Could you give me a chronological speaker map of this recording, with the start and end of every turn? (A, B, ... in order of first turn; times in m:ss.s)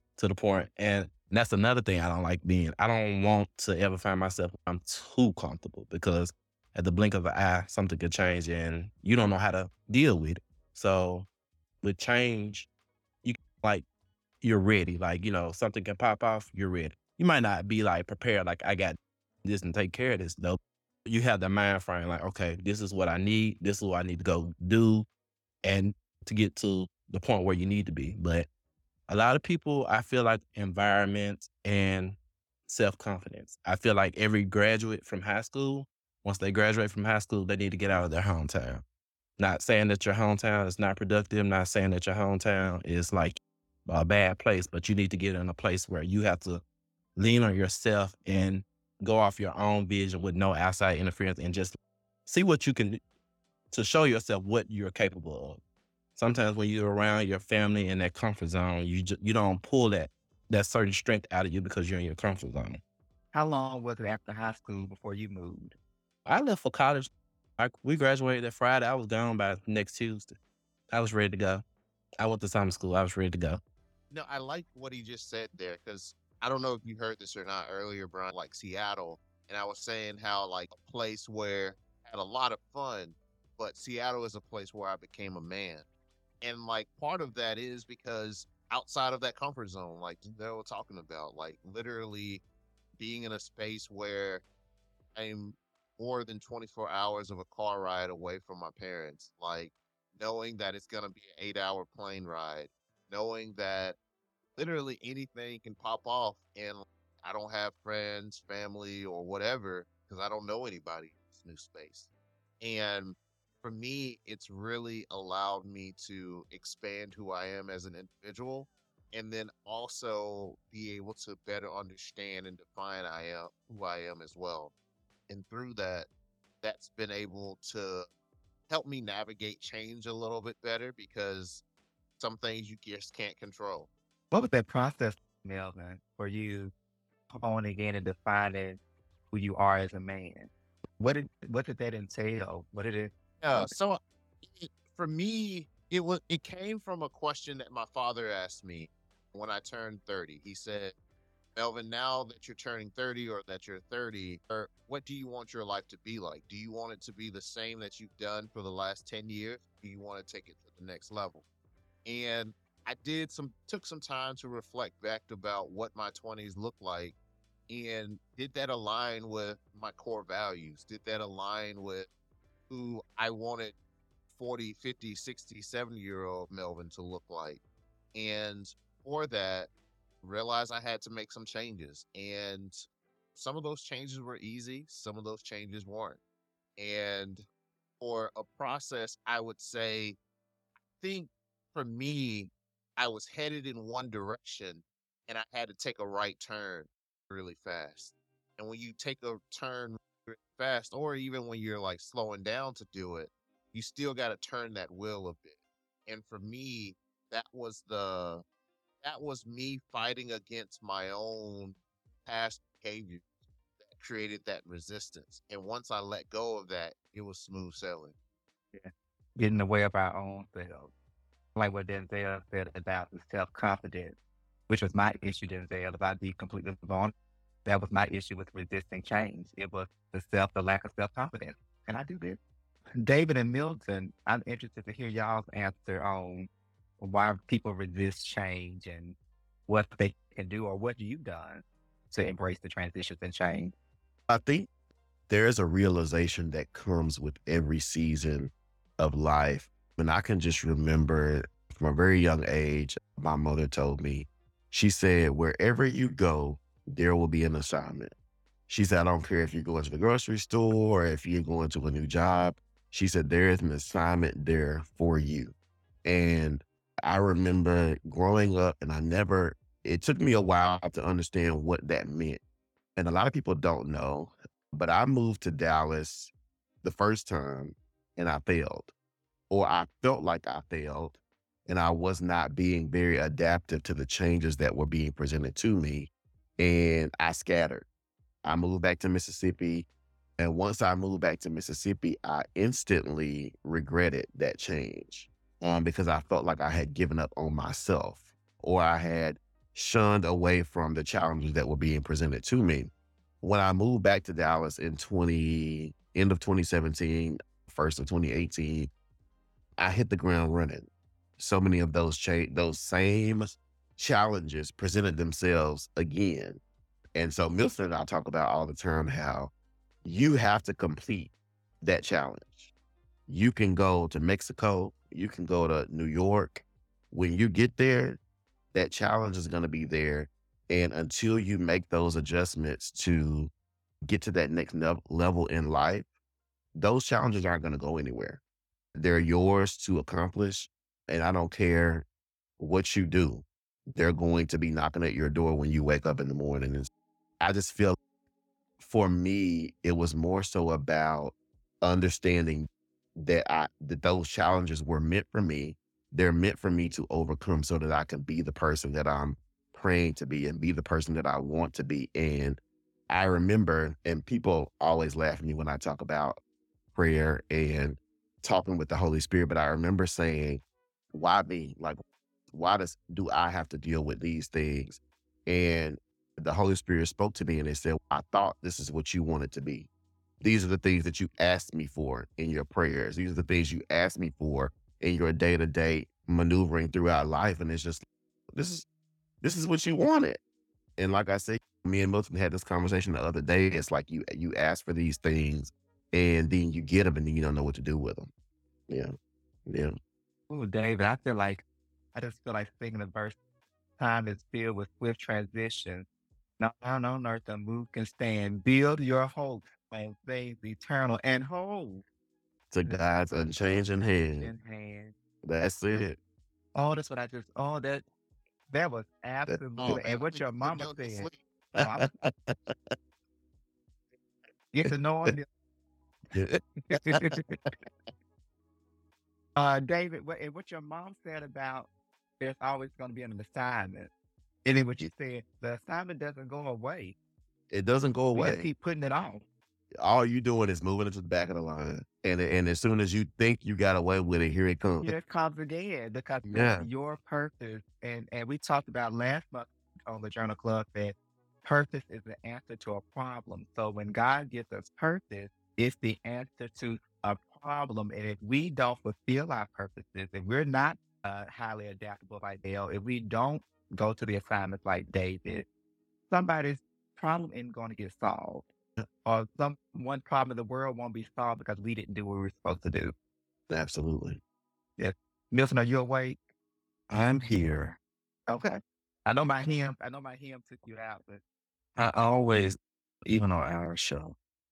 0:00.2-0:11.3 A
0:11.8-0:12.7 A
0:13.2-0:13.8 A
0:14.4-0:25.0 A
0:25.6-0:28.5 A
0:29.1-0:38.8 A
0:39.4-0:46.6 A
0:47.2-0:53.0 A
0:53.7-0:55.6 A
0:56.2-1:02.8 A
1:03.3-1:05.8 B
1:06.2-1:10.4 A
1:10.9-1:11.6 A
1:12.2-1:13.6 A
1:14.1-1:25.8 C
1:26.4-1:32.4 C
1:33.0-1:34.4 C
1:35.1-1:44.0 C
1:44.6-2:04.7 C
2:05.3-2:06.1 C
2:06.6-2:08.1 C
2:08.7-2:11.6 C
2:12.2-2:13.9 C
2:14.3-2:16.7 B
2:17.3-2:18.8 B
2:19.3-2:23.7 B
2:23.4-2:30.9 C
2:31.6-2:41.4 C
2:42.0-2:47.2 C
2:47.7-2:52.1 C
2:52.7-2:53.8 C
2:54.3-2:57.6 C
2:58.1-2:59.7 C
3:00.2-3:06.2 C
3:06.8-3:07.4 C
3:08.0-3:10.2 C
3:11.0-3:28.4 C
3:29.0-3:33.2 C
3:33.8-3:38.2 C
3:38.7-3:40.9 B
3:41.5-3:44.2 B
3:44.7-3:47.1 B
3:47.6-3:52.4 B
3:53.0-3:56.5 B
3:57.0-3:59.2 B
3:59.7-4:03.7 B
4:04.3-4:04.7 D
4:05.3-4:18.1 D
4:18.7-4:32.4 D
4:33.0-4:36.3 D
4:36.8-4:38.9 D
4:39.5-4:47.9 D
4:48.4-4:49.9 D
4:50.4-5:02.9 D
5:03.4-5:08.9 D
5:09.8-5:16.6 D
5:17.1-5:19.5 D
5:20.0-5:22.7 D
5:23.3-5:28.2 D
5:28.7-5:33.5 D
5:34.0-5:36.1 D
5:36.8-5:38.4 D
5:39.0-5:42.0 D
5:42.6-5:46.9 D
5:47.4-5:48.0 D
5:48.8-6:06.4 D
6:06.9-6:10.6 D
6:11.1-6:12.0 D
6:12.5-6:19.9 D
6:20.4-6:28.8 D
6:29.4-6:30.4 D
6:31.0-6:38.3 D
6:38.9-6:39.1 D
6:39.7-6:39.9 D
6:40.5-6:43.4 B
6:44.0-6:46.1 B
6:46.6-6:52.0 B
6:52.7-6:54.5 D
6:52.9-6:55.1 B
6:55.4-6:56.2 D
6:56.7-6:58.0 B
6:58.7-7:02.1 B
6:59.5-7:00.0 D
6:59.8-7:01.4 C
7:01.8-7:02.9 D
7:04.7-7:05.4 B
7:06.3-7:07.3 D
7:06.9-7:07.6 B
7:09.6-7:14.1 B
7:14.6-7:17.2 B
7:17.7-7:18.7 D
7:18.3-7:19.4 B
7:20.0-7:25.1 D
7:25.0-7:45.7 B
7:26.5-7:26.9 D
7:46.3-7:48.7 B
7:49.2-7:53.1 B
7:53.7-7:54.4 D
7:55.0-7:56.4 B
7:57.1-7:58.0 E
7:58.5-8:01.4 B
8:02.0-8:04.4 E